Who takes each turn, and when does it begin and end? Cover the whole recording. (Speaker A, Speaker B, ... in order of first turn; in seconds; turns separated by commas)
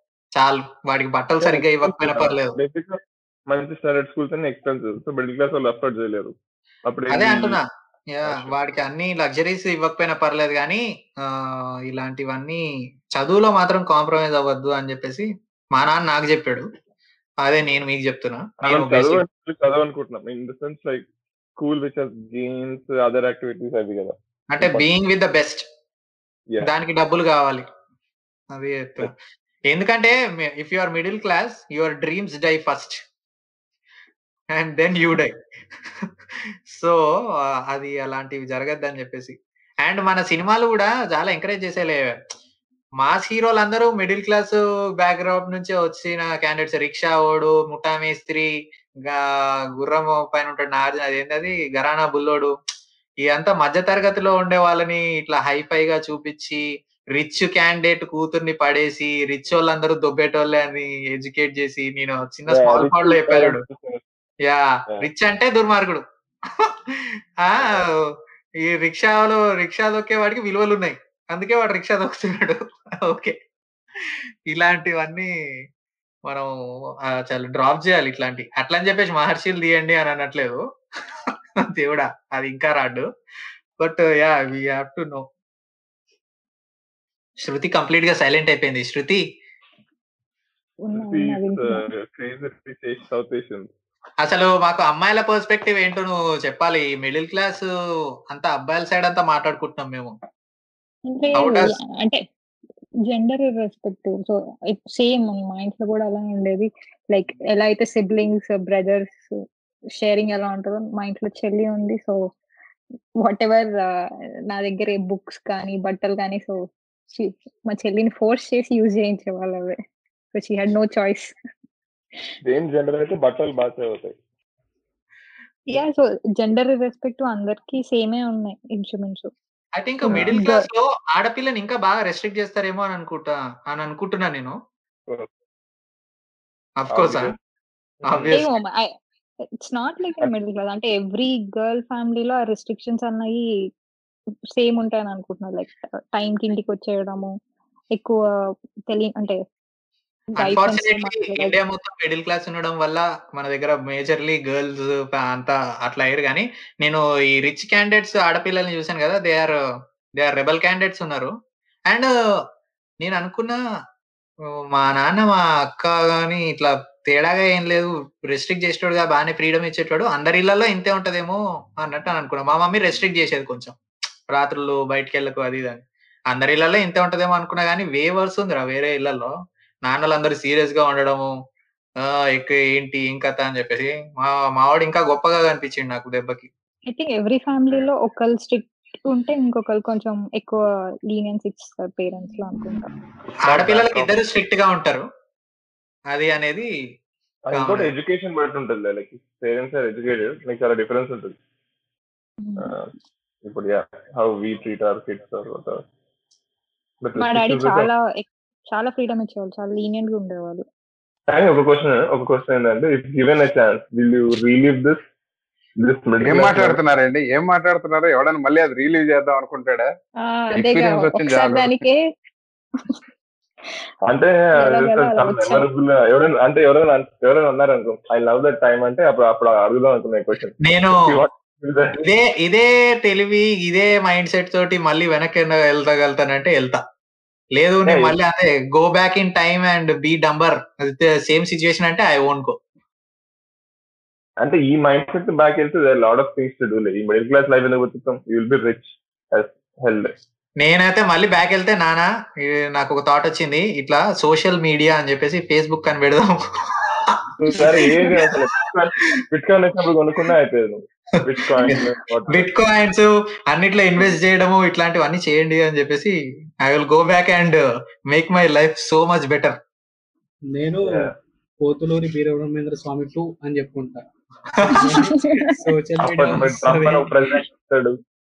Speaker A: 0.3-2.6, Speaker B: 1.4-6.3, Speaker B: 6.9-7.6, Speaker A: 7.1-7.6, Speaker A: 8.1-16.7, Speaker B: 8.2-8.6, Speaker A: 17.4-19.2, Speaker B: 18.6-21.1, Speaker B: 21.6-24.9, Speaker A: 24.6-25.6, Speaker A: 26.6-27.6, Speaker A: 28.5-29.1, Speaker A: 29.7-33.0, Speaker A: 34.5-35.4, Speaker A: 36.7-42.1, Speaker A: 43.0-48.5, Speaker A: 49.8-52.5, Speaker A: 53.2-63.6, Speaker B: 62.5-64.0, Speaker A: 64.5-67.9, Speaker B: 67.6-67.8, Speaker A: 68.6-73.4, Speaker A: 74.0-75.3, Speaker A: 76.3-76.5, Speaker A: 77.1-80.6, Speaker A: 81.6-83.1, Speaker A: 83.8-85.3, Speaker A: 87.4-89.2, Speaker C: 90.8-91.9, Speaker B: 91.0-93.7, Speaker A: 94.2-97.7, Speaker A: 98.3-100.1, Speaker C: 101.1-102.2, Speaker A: 101.4-101.7, Speaker C: 103.1-109.3, Speaker C: 110.0-112.2, Speaker C: 113.2-116.6, Speaker C: 117.1-119.8, Speaker C: 120.3-121.3, Speaker B: 122.4-124.2, Speaker C: 125.7-129.3, Speaker A: 129.8-134.6, Speaker C: 130.0-130.7, Speaker B: 130.1-130.4, Speaker A: 136.8-137.3, Speaker B: 136.9-137.4, Speaker B: 138.0-138.4, Speaker A: 138.1-138.5, Speaker C: 138.3-138.9, Speaker C: 139.6-143.4, Speaker C: 144.6-147.3, Speaker C: 148.9-149.4, Speaker C: 150.4-151.6, Speaker A: 150.4-159.5, Speaker A: 160.2-161.3, Speaker A: 163.0-163.6, Speaker A: 164.7-173.8, Speaker A: 174.3-179.3, Speaker A: 179.8-181.3, Speaker A: 182.0-186.5, Speaker C: 186.9-192.9, Speaker B: 193.4-194.2, Speaker A: 193.5-195.1, Speaker A: 196.1-196.7, Speaker B: 197.4-201.4, Speaker A: 197.6-197.9, Speaker C: 202.4-202.7, Speaker B: 202.6-202.9, Speaker B: 203.4-205.8, Speaker B: 207.0-207.9, Speaker C: 207.2-210.7, Speaker B: 211.3-215.0, Speaker B: 215.8-216.8, Speaker D: 216.2-219.8, Speaker C: 220.2-222.0, Speaker D: 220.6-221.8, Speaker B: 224.1-232.0, Speaker C: 224.6-225.7, Speaker A: 230.6-231.2, Speaker A: 232.0-236.8, Speaker A: 237.6-242.6, Speaker B: 237.9-238.2, Speaker B: 244.4-250.1, Speaker A: 250.6-256.5, Speaker A: 257.0-258.4, Speaker B: 257.4-262.5, Speaker A: 261.7-267.6, Speaker A: 268.1-269.6, Speaker E: 270.5-274.0, Speaker B: 270.9-271.1, Speaker A: 274.6-275.0, Speaker E: 274.6-277.4, Speaker B: 276.0-278.0, Speaker D: 276.2-276.4